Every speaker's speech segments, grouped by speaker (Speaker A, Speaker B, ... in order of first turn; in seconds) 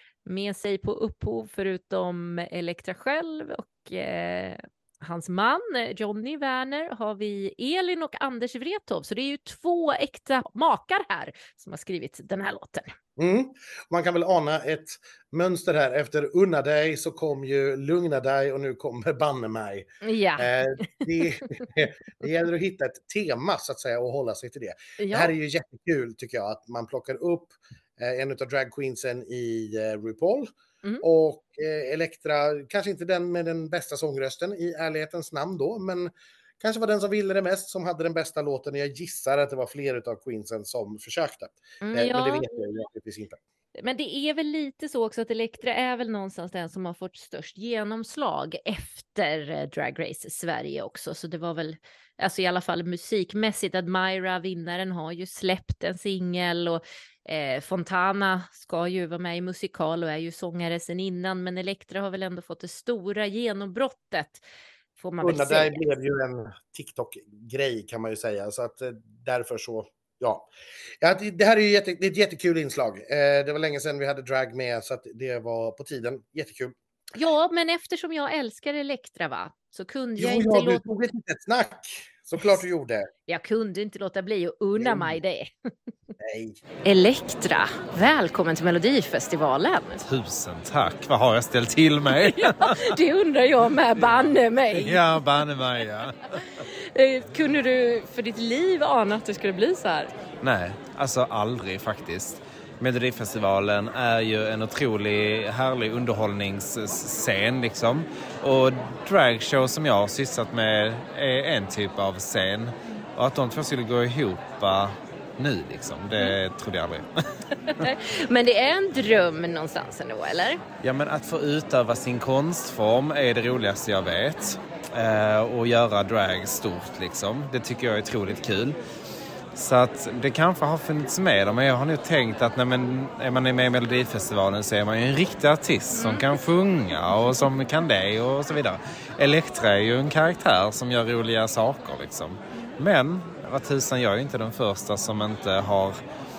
Speaker A: 0.2-12.9, 20.0-21.1, 25.0-25.3, 41.8-42.5, 43.8-64.4, 65.0-65.8, 77.2-80.8, 83.3-85.5, 86.8-90.0, 92.2-95.2, 96.6-100.1, 117.7-120.6, 136.0-136.3
Speaker B: 13.2-30.5, 31.0-43.4, 65.2-70.5, 71.0-76.8, 80.2-83.1, 84.8-85.2, 86.2-86.6
Speaker C: 90.0-93.0, 94.7-96.5, 100.4-117.1, 120.8-128.8, 129.6-146.0